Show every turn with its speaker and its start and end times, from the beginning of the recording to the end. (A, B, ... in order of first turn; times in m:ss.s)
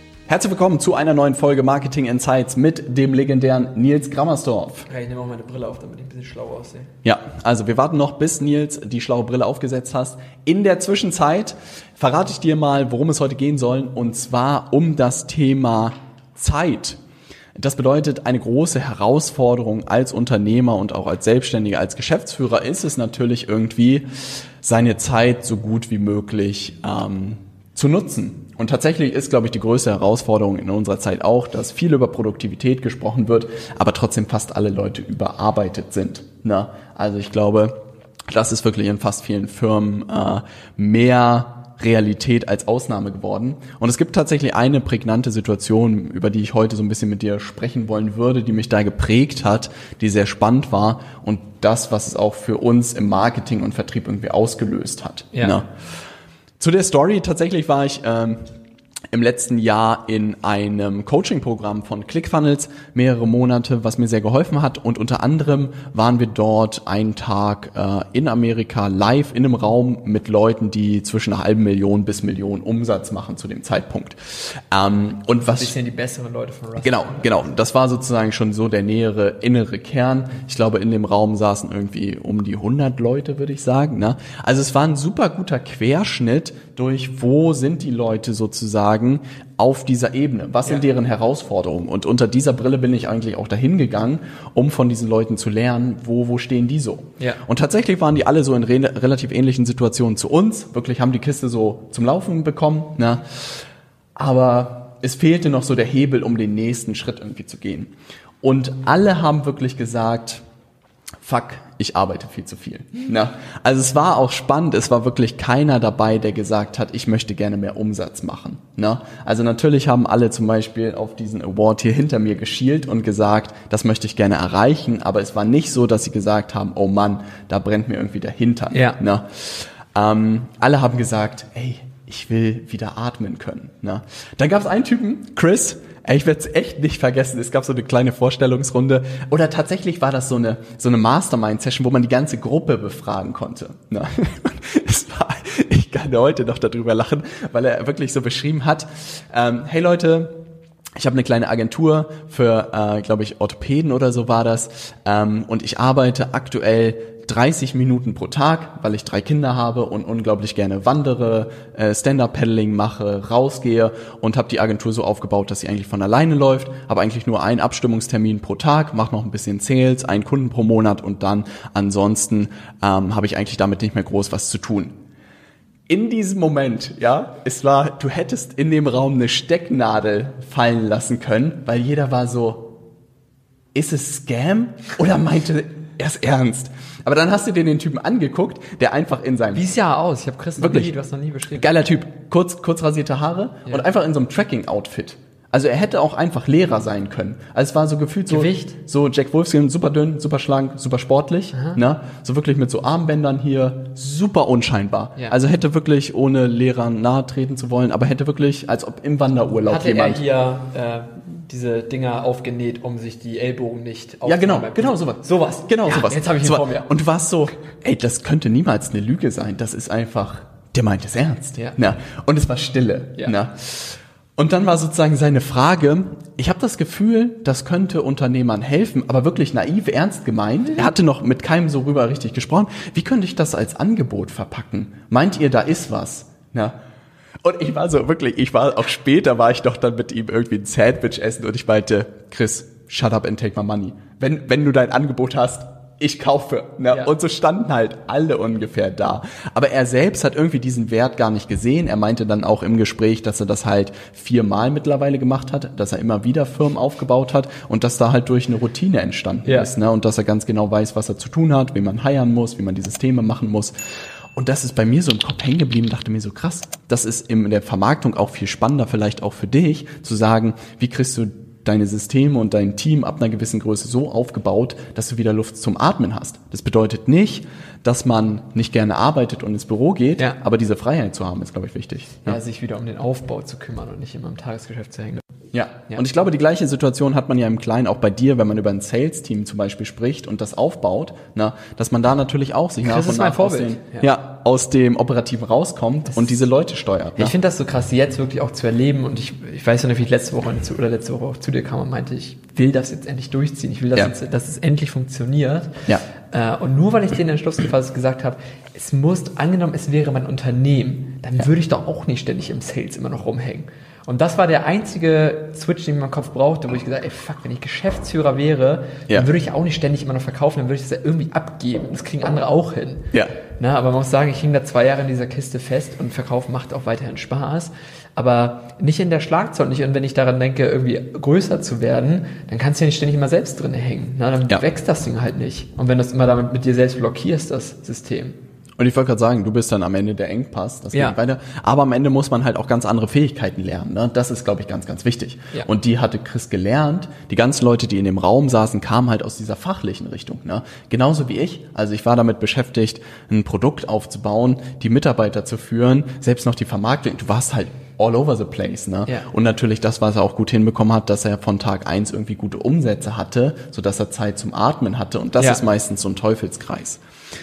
0:00.3-0:04.9 A
0:04.9-0:06.9 B
0:07.0-0:17.0 A
0:17.6-0:24.0 A
0:24.6-0:37.8 A
0:38.3-0:55.6 A
0:55.3-0:55.6 B
0:56.6-0:58.4 A
0:59.1-1:15.7 A
1:15.5-1:17.4 B
1:16.8-1:43.2 A
1:44.2-1:47.9 A
1:48.4-1:50.4 A
1:51.2-2:30.4 A
2:08.7-2:09.0 B
2:31.0-2:54.9 A
2:55.9-3:02.7 A
3:03.7-3:09.7 A
3:09.5-3:11.7 B
3:10.6-3:10.9 A
3:11.5-3:30.2 A
3:18.3-3:18.7 B
3:21.5-3:21.8 B
3:29.6-3:36.9 B
3:34.2-3:56.8 A
3:57.4-4:23.7 A
4:19.4-4:19.7 B
4:24.3-4:42.4 A
4:42.2-4:45.2 B
4:45.5-4:57.3 A
4:52.8-4:54.1 B
4:57.2-5:05.8 B
5:06.3-5:38.4 B
5:38.8-6:07.0 A
6:05.4-6:05.6 B